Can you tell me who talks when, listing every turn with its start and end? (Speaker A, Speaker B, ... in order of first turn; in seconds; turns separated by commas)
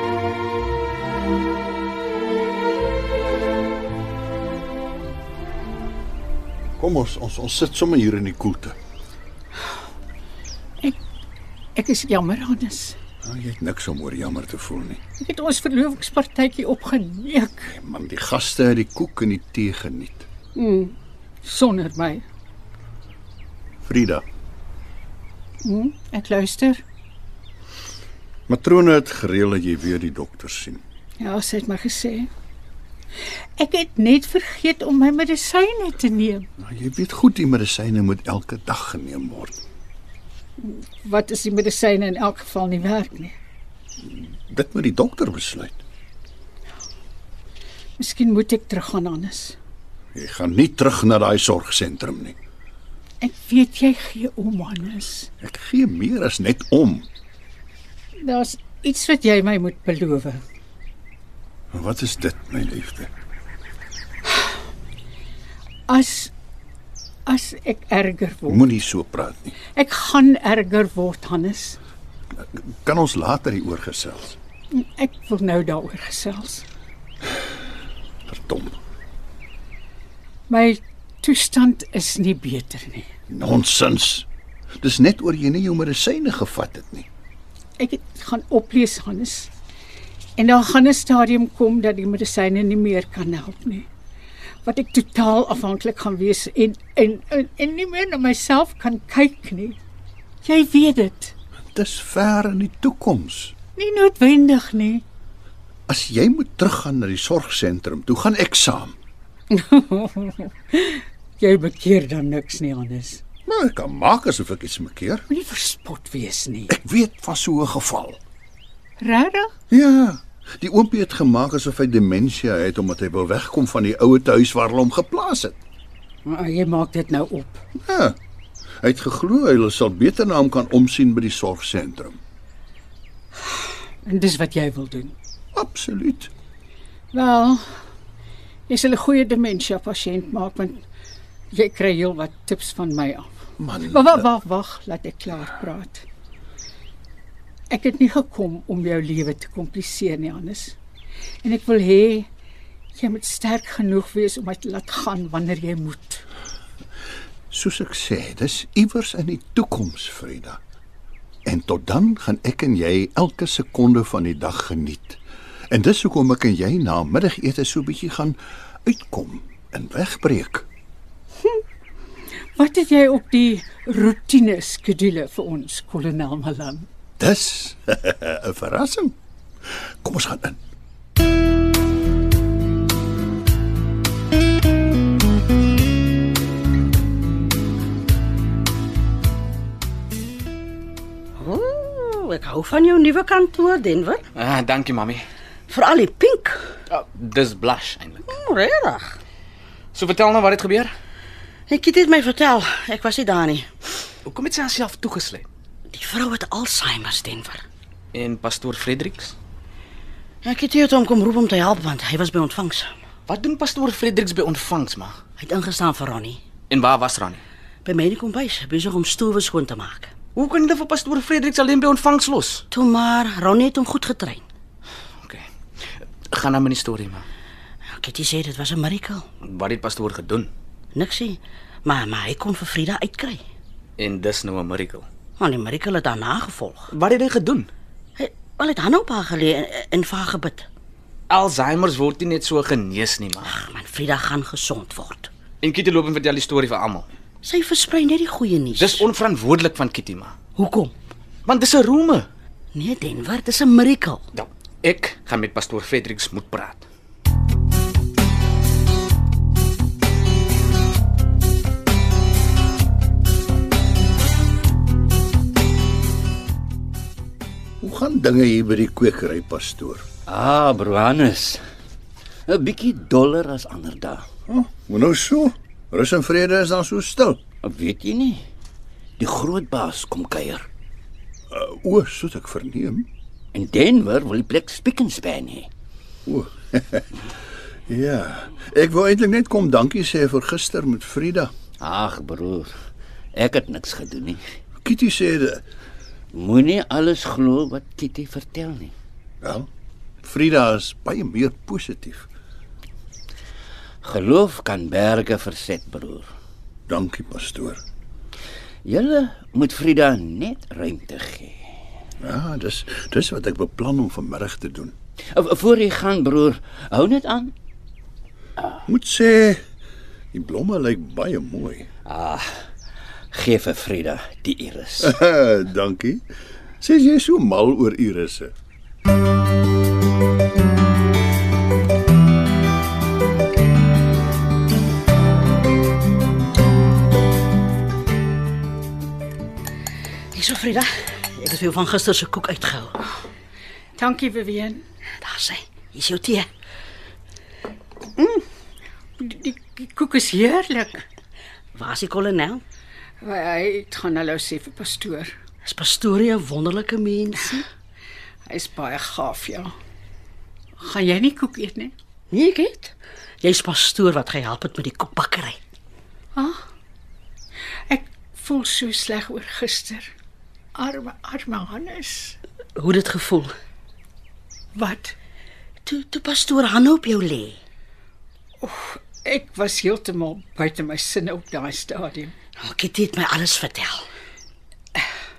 Speaker A: 6.8-8.8, Speaker B: 11.8-13.0, Speaker A: 13.2-15.0, Speaker B: 15.2-17.7, Speaker A: 17.7-20.3, Speaker B: 20.6-22.2, Speaker A: 23.8-24.2, Speaker B: 25.6-26.8, Speaker A: 28.5-30.8, Speaker B: 31.2-32.3, Speaker B: 33.6-36.5, Speaker A: 36.6-39.6, Speaker B: 40.6-43.3, Speaker A: 44.0-45.8, Speaker B: 48.0-49.6, Speaker A: 50.1-52.4, Speaker B: 53.2-55.3, Speaker A: 55.4-57.1, Speaker B: 58.2-60.4, Speaker A: 61.7-63.1, Speaker B: 65.9-66.3, Speaker B: 67.3-68.6, Speaker A: 68.5-69.6, Speaker B: 69.8-71.8, Speaker A: 72.4-74.4, Speaker B: 74.7-76.7, Speaker A: 78.3-78.8, Speaker B: 80.5-83.1, Speaker A: 83.3-84.3, Speaker A: 84.8-87.1, Speaker B: 87.8-89.5, Speaker B: 90.4-93.9, Speaker B: 94.7-99.8, Speaker B: 100.4-101.3, Speaker A: 101.8-103.5, Speaker B: 103.8-105.0, Speaker A: 105.9-109.0, Speaker B: 109.5-113.2, Speaker A: 113.5-115.2, Speaker B: 115.3-116.7, Speaker A: 116.7-118.2, Speaker B: 119.0-119.5, Speaker A: 119.7-125.6, Speaker B: 126.3-127.6, Speaker A: 127.8-128.2, Speaker A: 128.8-132.2, Speaker B: 134.0-135.2, Speaker A: 135.6-136.3, Speaker B: 137.1-137.6, Speaker B: 138.7-140.8, Speaker B: 141.5-143.3, Speaker A: 143.6-144.3, Speaker B: 143.8-146.1, Speaker B: 147.7-150.8, Speaker B: 151.4-152.3, Speaker B: 153.0-156.2, Speaker A: 157.5-160.6, Speaker A: 161.5-165.2, Speaker A: 165.7-170.7, Speaker B: 172.6-176.9, Speaker A: 177.2-179.1, Speaker A: 180.0-180.6, Speaker C: 191.4-194.3, Speaker D: 194.4-195.2, Speaker C: 195.7-196.7, Speaker D: 196.9-198.3, Speaker C: 198.3-199.2, Speaker D: 199.9-200.9, Speaker C: 201.7-203.9, Speaker D: 204.3-205.5, Speaker C: 205.9-207.7, Speaker D: 208.1-209.3, Speaker C: 210.4-212.9, Speaker D: 213.3-215.2, Speaker C: 215.4-216.4, Speaker D: 216.7-217.4, Speaker C: 217.8-220.1, Speaker D: 220.3-222.7, Speaker C: 222.7-224.4, Speaker D: 226.3-227.2, Speaker C: 227.9-229.3, Speaker D: 229.4-230.5, Speaker C: 230.9-233.4, Speaker D: 234.0-235.1, Speaker C: 235.4-236.9, Speaker D: 236.9-237.7, Speaker C: 238.2-240.7, Speaker D: 241.3-243.6, Speaker C: 243.4-245.3, Speaker D: 245.6-247.1, Speaker C: 247.4-249.1, Speaker D: 248.8-250.3, Speaker C: 250.6-250.9, Speaker D: 251.5-252.3, Speaker C: 252.7-254.3, Speaker D: 254.3-256.9, Speaker A: 267.8-270.1, Speaker E: 270.3-271.6, Speaker E: 272.5-274.3, Speaker A: 274.5-277.4, Speaker E: 277.6-278.4, Speaker E: 279.2-280.7, Speaker A: 281.5-283.1, Speaker E: 283.5-285.7, Speaker A: 286.3-287.3, Speaker A: 287.9-291.5, Speaker E: 291.8-292.7, Speaker E: 293.4-294.4, Speaker A: 294.8-295.6, Speaker E: 296.3-298.9, Speaker A: 300.2-302.3, Speaker E: 304.0-306.3, Speaker A: 306.9-307.8, Speaker E: 308.9-311.6, Speaker A: 312.2-314.9, Speaker E: 315.3-317.5, Speaker A: 318.9-319.6, Speaker A: 320.3-321.9, Speaker E: 322.1-322.5, Speaker E: 323.3-325.1, Speaker A: 325.0-326.2, Speaker A: 326.8-328.5, Speaker C: 340.3-343.0, Speaker B: 343.9-344.8, Speaker C: 345.2-346.5, Speaker B: 349.2-351.1, Speaker C: 351.8-352.6, Speaker B: 353.2-355.3, Speaker C: 355.6-357.7, Speaker B: 358.5-359.7, Speaker B: 360.8-361.9, Speaker C: 362.3-365.6, Speaker B: 367.9-370.1, Speaker B: 370.8-372.4, Speaker C: 372.8-373.5, Speaker B: 374.8-375.1, Speaker C: 375.9-377.6, Speaker B: 378.6-382.3, Speaker C: 382.6-384.1